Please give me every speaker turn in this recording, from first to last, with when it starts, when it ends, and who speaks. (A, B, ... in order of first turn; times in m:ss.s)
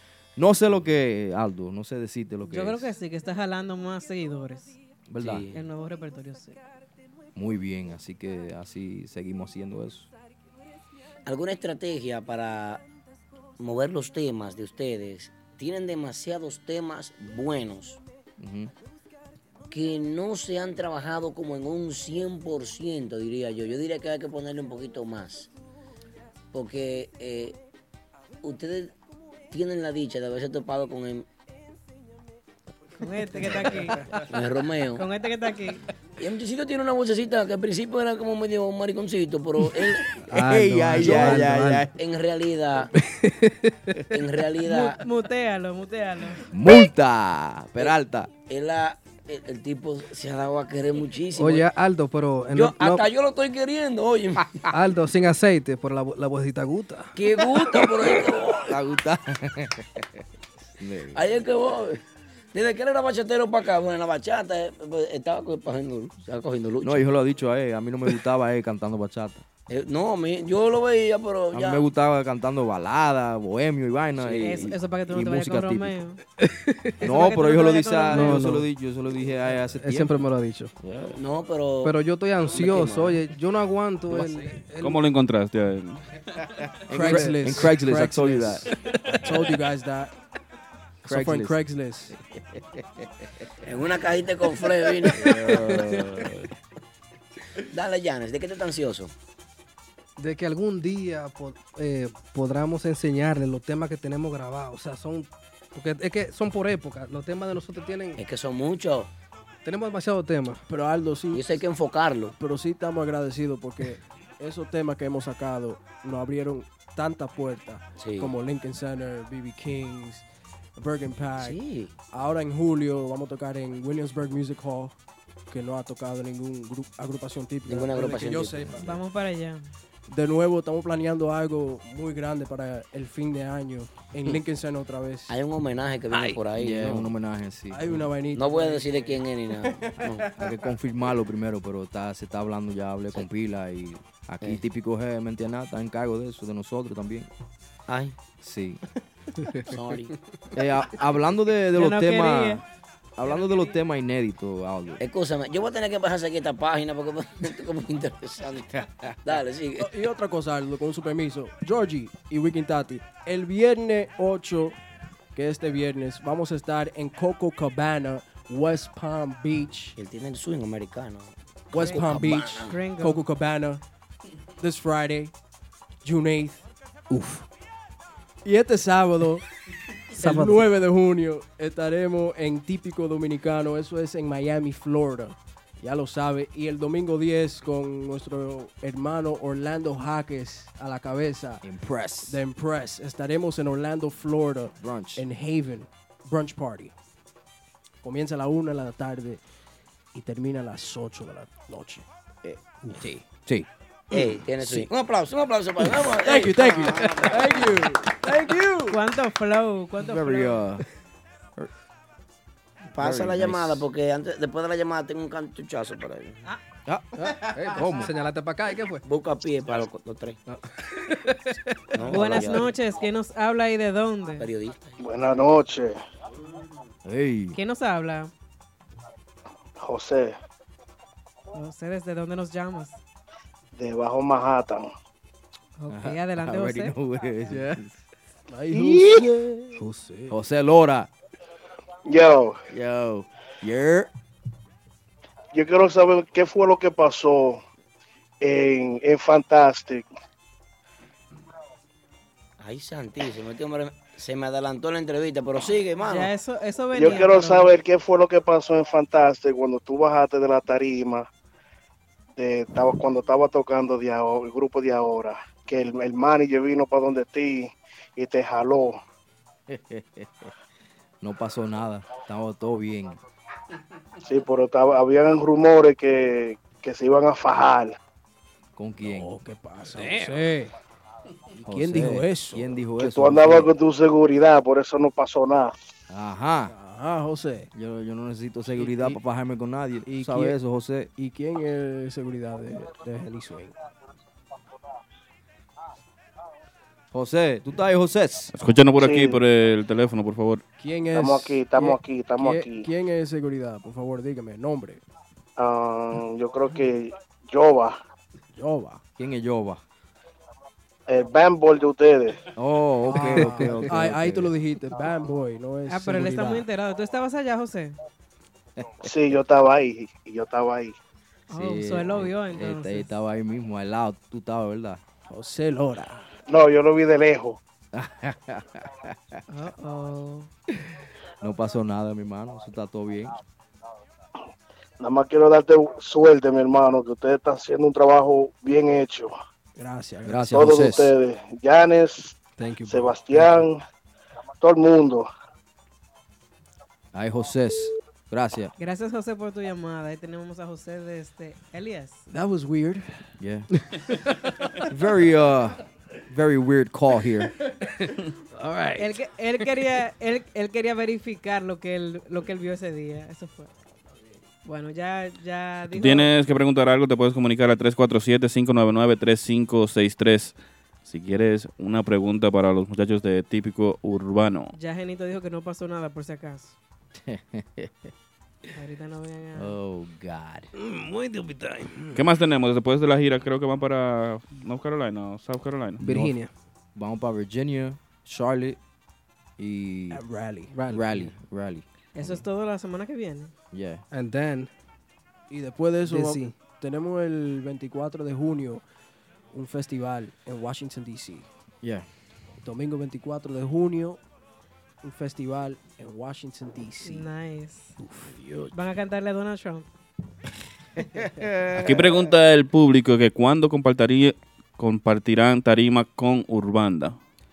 0:00.4-0:02.9 A
0:02.4-0:04.8 B
0:05.1-0:05.5 A
0:05.2-0:05.6 C
0:05.5-0:06.6 B
0:07.3-0:10.1 A
0:11.2-0:12.8 C
0:13.6-0:18.0 C
0:18.4-0:18.7 A
0:19.7-0:25.5 C
0:26.5-0:27.6 C
0:28.4-0:28.9 C
0:29.5-0:31.3 C
0:33.0-0:34.1 B
0:34.2-0:35.0 C
0:34.9-0:35.8 B
0:36.2-0:40.1 C
0:40.3-0:41.9 D
0:40.3-0:41.9 A
0:41.9-0:42.9 C
0:43.0-0:44.0 D
0:44.1-0:45.0 C
0:44.6-0:46.4 B
0:46.5-0:48.3 A
0:48.5-0:51.7 C
0:51.4-0:53.0 D
0:52.5-0:54.6 C
0:54.7-0:57.1 D
0:57.1-0:58.7 C
0:58.6-1:00.1 A
1:00.8-1:01.2 A
1:01.1-1:02.0 C
1:02.5-1:07.0 C
1:06.8-1:09.4 A
1:09.7-1:11.8 C
1:11.5-1:16.0 A
1:14.2-1:14.7 C
1:14.4-1:16.2 B
1:16.4-1:17.0 D
1:17.0-1:20.2 A
1:17.0-1:18.5 B
1:18.1-1:18.6 D
1:19.7-1:20.7 D
1:20.8-1:21.2 A
1:21.1-1:23.2 C
1:21.8-1:25.0 D
1:24.8-1:26.0 E
1:26.9-1:29.1 A
1:26.9-1:30.1 F
1:27.1-1:27.3 D
1:31.0-1:32.8 A
1:31.0-1:32.1 F
1:33.6-1:35.4 C
1:35.1-1:36.5 A
1:37.6-1:39.1 C
1:40.2-1:48.2 D
1:48.2-1:49.1 C
1:49.6-1:50.6 D
1:50.7-1:51.6 F
1:51.3-1:52.3 C
1:52.4-2:00.2 F
1:58.0-1:58.3 C
2:00.8-2:01.6 F
2:01.4-2:01.9 C
2:02.1-2:05.0 F
2:05.5-2:08.9 F
2:07.6-2:08.8 C
2:08.6-2:08.9 A
2:08.8-2:09.6 B
2:10.1-2:15.3 F
2:15.3-2:17.1 C
2:16.5-2:18.1 A
2:17.7-2:20.5 F
2:18.3-2:20.3 C
2:20.3-2:27.3 A
2:27.9-2:28.2 C
2:28.4-2:28.8 A
2:29.7-2:30.1 C
2:30.5-2:32.6 A
2:31.7-2:32.6 B
2:33.2-2:35.0 A
2:33.2-2:33.8 B
2:35.0-2:39.9 C
2:39.8-2:44.8 F
2:45.3-2:50.0 F
2:50.0-2:52.8 C
2:51.7-2:53.2 B
2:51.7-2:53.8 F
2:54.6-2:55.3 F
2:56.0-2:56.7 F
2:57.1-2:57.4 A
2:58.4-2:59.4 F
3:00.1-3:11.6 F
3:00.2-3:00.5 D
3:11.6-3:12.4 A
3:12.3-3:16.9 F
3:14.8-3:15.2 A
3:18.0-3:19.4 F
3:20.1-3:22.0 F
3:22.9-3:24.9 A
3:24.1-3:27.9 C
3:26.2-3:29.0 F
3:28.9-3:30.6 B
3:30.0-3:30.8 A
3:32.9-3:36.4 C
3:33.0-3:33.8 A
3:36.8-3:38.1 A
3:37.2-3:39.0 D
3:39.0-3:40.4 C
3:40.5-3:41.5 D
3:41.9-3:42.7 C
3:42.0-3:42.7 A
3:42.1-3:44.5 B
3:44.4-3:45.0 C
3:45.0-3:46.0 G
3:47.0-3:47.6 A
3:47.5-3:48.3 B
3:49.8-3:50.4 G
3:51.5-3:53.0 B
3:53.8-3:54.9 G
3:55.8-3:57.0 B
3:55.9-3:58.0 A
3:57.5-3:57.8 F
3:58.5-4:00.4 F
3:58.7-3:59.2 G
3:58.8-4:01.1 A
4:02.0-4:02.6 G
4:02.7-4:04.1 A
4:05.5-4:07.6 G
4:08.4-4:10.1 G
4:12.6-4:16.3 C
4:16.0-4:17.7 B
4:16.9-4:21.3 G
4:22.4-4:29.0 G
4:29.7-4:30.5 A
4:31.2-4:33.2 A
4:34.2-4:38.0 G
4:38.8-4:39.3 A
4:39.0-4:40.7 F
4:41.6-4:43.7 A
4:41.6-4:42.8 F
4:43.0-4:45.7 G
4:46.1-4:46.7 A
4:46.7-4:47.7 F
4:47.7-4:51.1 A
4:48.7-4:49.2 F
4:50.0-4:50.6 F
4:51.2-4:53.8 F
4:57.1-4:58.5 A
4:58.5-5:00.6 E
4:59.0-4:59.4 G
5:00.8-5:05.0 F
5:01.1-5:02.9 G
5:05.6-5:08.0 G
5:08.6-5:09.0 F
5:09.2-5:09.8 A
5:11.1-5:12.4 G
5:12.5-5:14.5 A
5:13.0-5:16.6 F
5:15.9-5:17.9 B
5:18.8-5:19.1 A
5:19.0-5:20.9 G
5:21.5-5:23.1 B
5:21.5-5:25.0 A
5:25.3-5:26.2 F
5:26.5-5:27.6 G
5:27.9-5:29.4 A
5:29.5-5:30.5 B
5:31.4-5:33.4 A
5:35.0-5:39.3 G
5:39.8-5:40.8 F
5:40.2-5:41.1 A
5:40.5-5:42.4 G
5:42.6-5:43.4 F
5:42.9-5:43.8 G
5:44.6-5:45.3 G
5:47.1-5:48.7 A
5:48.8-5:52.2 B
5:52.3-5:54.2 F
5:53.4-5:53.7 A
5:54.9-5:57.5 A
5:58.6-5:59.0 F
5:59.0-6:03.7 B
6:04.6-6:06.3 B
6:05.9-6:14.7 E
6:14.7-6:16.8 B
6:17.3-6:18.1 A
6:18.8-6:19.7 B
6:19.6-6:20.7 A
6:20.9-6:21.9 D
6:22.2-6:26.1 E
6:26.0-6:26.5 D
6:26.0-6:26.3 A
6:27.0-6:28.8 A
6:29.6-6:30.2 A
6:30.1-6:30.9 F
6:30.7-6:31.2 D
6:30.8-6:32.4 A
6:32.1-6:33.5 B
6:33.7-6:34.0 A
6:34.1-6:34.7 D
6:35.5-6:38.8 F
6:36.1-6:36.5 D
6:39.5-6:41.4 F
6:41.8-6:42.1 A
6:42.6-6:44.2 F
6:45.0-6:47.3 F
6:47.0-6:47.9 B
6:48.0-6:48.6 F
6:48.7-6:49.9 B
6:51.2-6:52.3 A
6:51.7-6:57.2 E